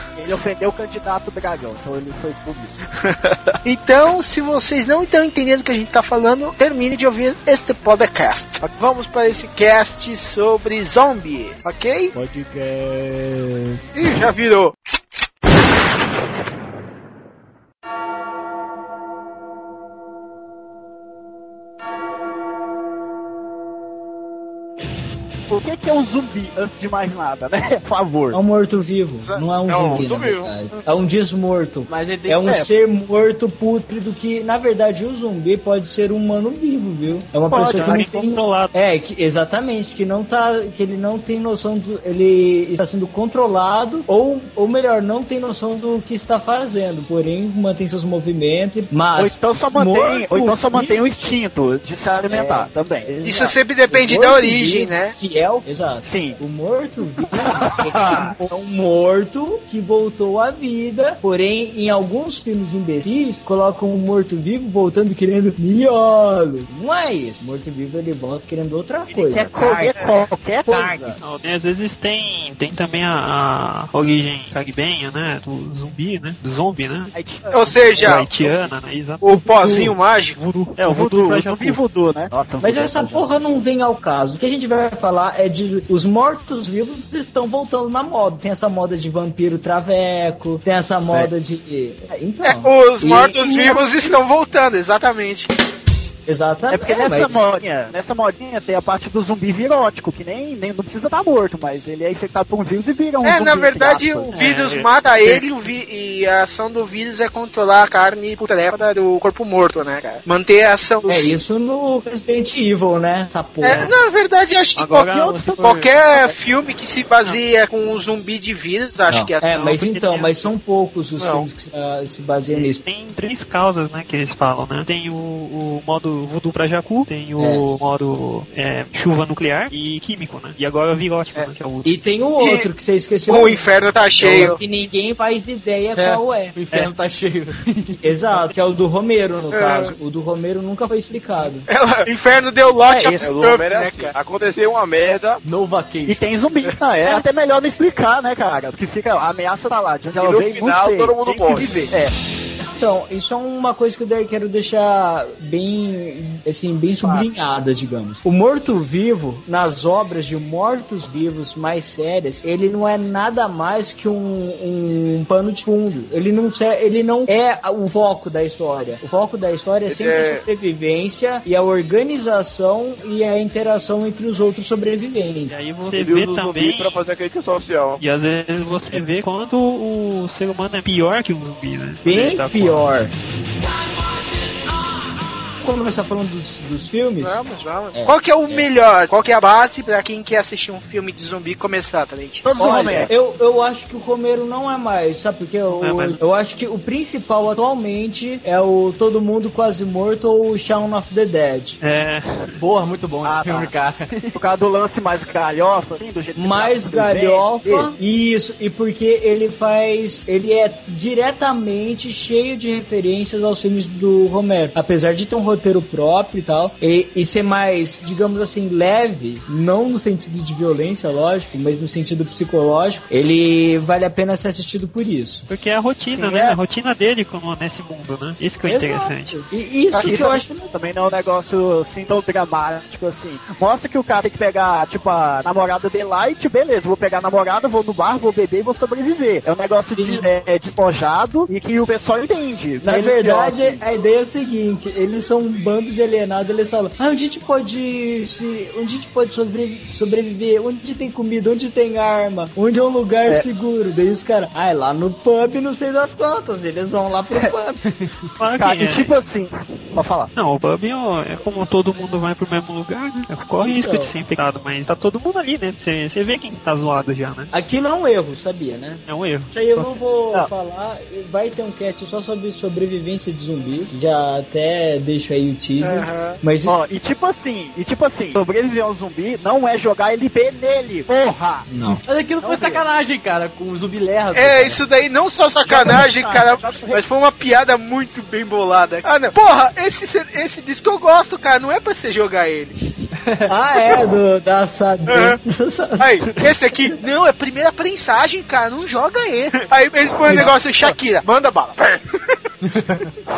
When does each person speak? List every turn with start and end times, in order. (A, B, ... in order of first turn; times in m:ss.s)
0:00.2-0:02.8 A
0:03.6-0:12.1 B
0:12.1-0:13.9 A
0:14.0-0:14.7 B
0:25.5-0:28.4 A
0:28.3-0:51.0 C
0:29.7-0:30.5 D
0:31.9-0:32.7 E
0:37.5-0:38.1 A
0:37.7-0:38.7 F
0:49.2-0:53.6 A
0:52.3-0:52.7 C
0:53.2-0:55.1 B
0:53.9-1:10.0 C
0:56.0-0:56.4 A
0:57.6-0:58.3 A
1:09.2-1:11.2 A
1:10.7-1:11.2 C
1:11.2-1:17.1 F
1:17.1-1:18.3 A
1:17.5-1:18.6 B
1:18.0-1:21.8 F
1:19.2-1:20.4 B
1:20.8-1:23.3 A
1:22.6-1:33.8 C
1:32.4-1:35.5 B
1:36.3-1:37.4 C
1:36.7-1:44.3 A
1:43.2-1:51.4 B
1:44.3-1:45.4 F
1:51.1-1:53.9 C
1:53.6-1:55.1 B
1:54.8-1:55.8 F
1:54.9-1:56.3 A
1:55.6-1:59.5 B
1:59.1-2:02.8 C
1:59.5-2:00.3 F
2:02.5-2:11.9 F
2:07.4-2:07.6 C
2:11.8-2:13.6 C
2:12.4-2:12.7 B
2:13.3-2:14.6 B
2:14.2-2:16.6 C
2:14.2-2:14.5 F
2:16.0-2:18.0 E
2:18.0-2:21.7 C
2:19.5-2:20.0 B
2:21.7-2:24.1 B
2:23.2-2:25.4 D
2:25.4-2:26.2 E
2:26.1-2:32.2 A
2:26.7-2:27.2 B
2:30.2-2:31.8 D
2:32.8-2:55.5 C
2:37.0-2:37.3 A
2:49.9-2:50.4 D
2:55.5-2:57.0 F
2:55.9-2:58.0 D
2:58.0-3:03.0 F
3:02.0-3:03.1 C
3:05.6-3:07.4 C
3:07.2-3:12.5 B
3:07.9-3:08.6 C
3:12.4-3:13.1 A
3:12.6-3:21.8 C
3:15.8-3:16.2 F
3:21.8-3:22.6 F
3:22.6-3:24.4 E
3:23.2-3:23.7 A
3:24.3-3:27.9 A
3:26.4-3:45.5 C
3:45.5-3:50.1 F
3:46.1-3:46.6 A
3:48.7-3:50.7 C
3:50.0-4:03.8 A
4:00.0-4:00.3 C
4:02.8-4:17.8 C
4:18.4-4:19.1 F
4:18.6-4:20.3 A
4:20.4-4:27.5 F
4:23.6-4:24.1 C
4:27.5-4:36.8 C
4:29.1-4:29.5 F
4:29.8-4:30.5 A
4:35.8-4:36.4 B
4:36.6-4:42.8 A
4:41.7-4:42.0 C
4:42.1-4:44.8 E
4:44.3-4:52.7 B
4:45.6-4:47.0 A
4:53.5-4:56.2 C
4:55.1-4:55.4 B
4:56.0-5:02.0 B
5:00.3-5:00.9 A
5:02.7-5:03.1 E